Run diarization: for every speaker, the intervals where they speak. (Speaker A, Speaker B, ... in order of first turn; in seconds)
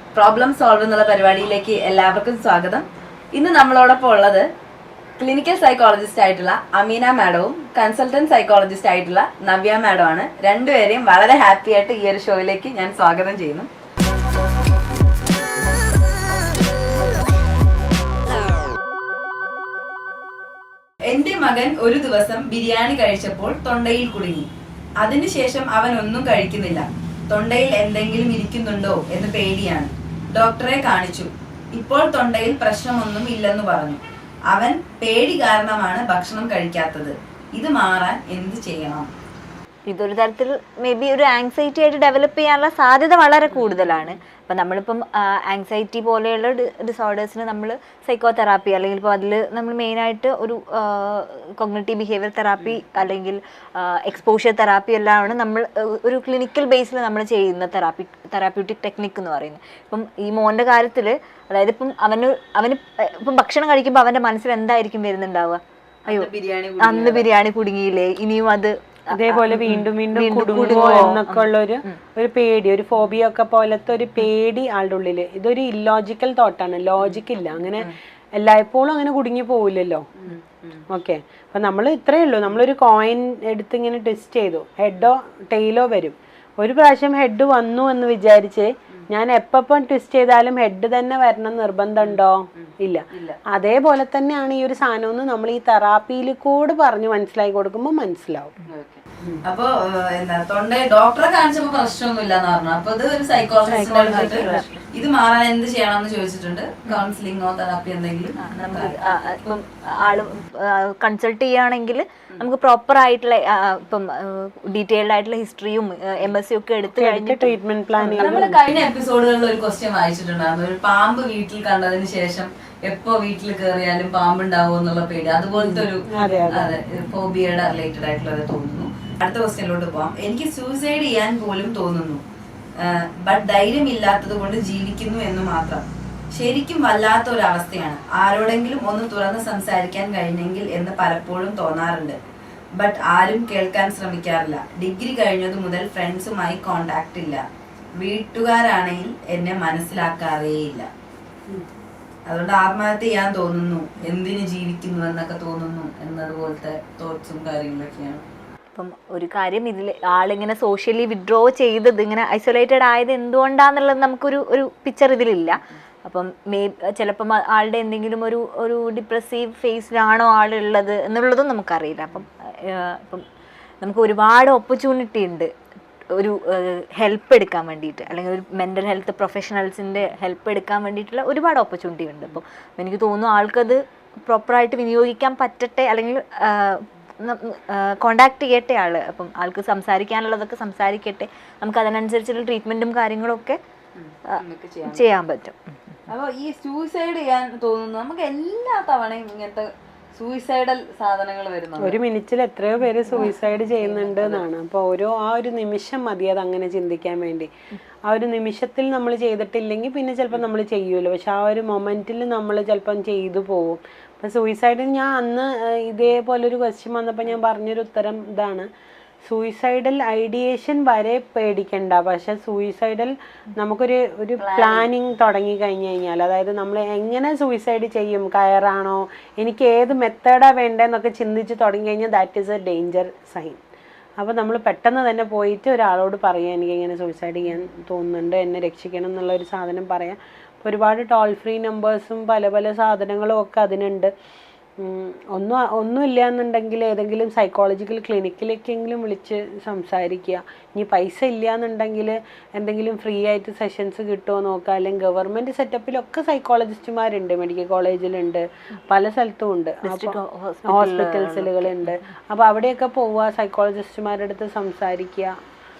Speaker A: 0.1-4.5, 5.2-13.7, 21.1-24.5, 25.0-39.1, 43.5-44.1, 66.1-67.3, 70.5-71.2, 80.2-80.9, 92.0-93.4, 98.7-110.2, 118.0-132.2, 132.8-142.2, 142.8-147.4, 148.0-150.9, 152.3-158.2, 194.0-195.0, 196.1-202.0, 203.1-204.4, 224.4-224.9
Speaker B: 39.9-72.0, 103.7-104.8, 108.4-117.5, 158.7-173.2, 173.8-175.5, 176.2-193.6, 194.3-195.6, 259.8-261.9
Speaker C: 69.1-80.0, 80.9-98.6, 103.7-104.7, 116.9-118.6, 125.6-126.7, 201.8-207.5, 208.1-218.7, 219.2-233.6, 234.2-244.1, 244.8-260.2, 260.7-265.4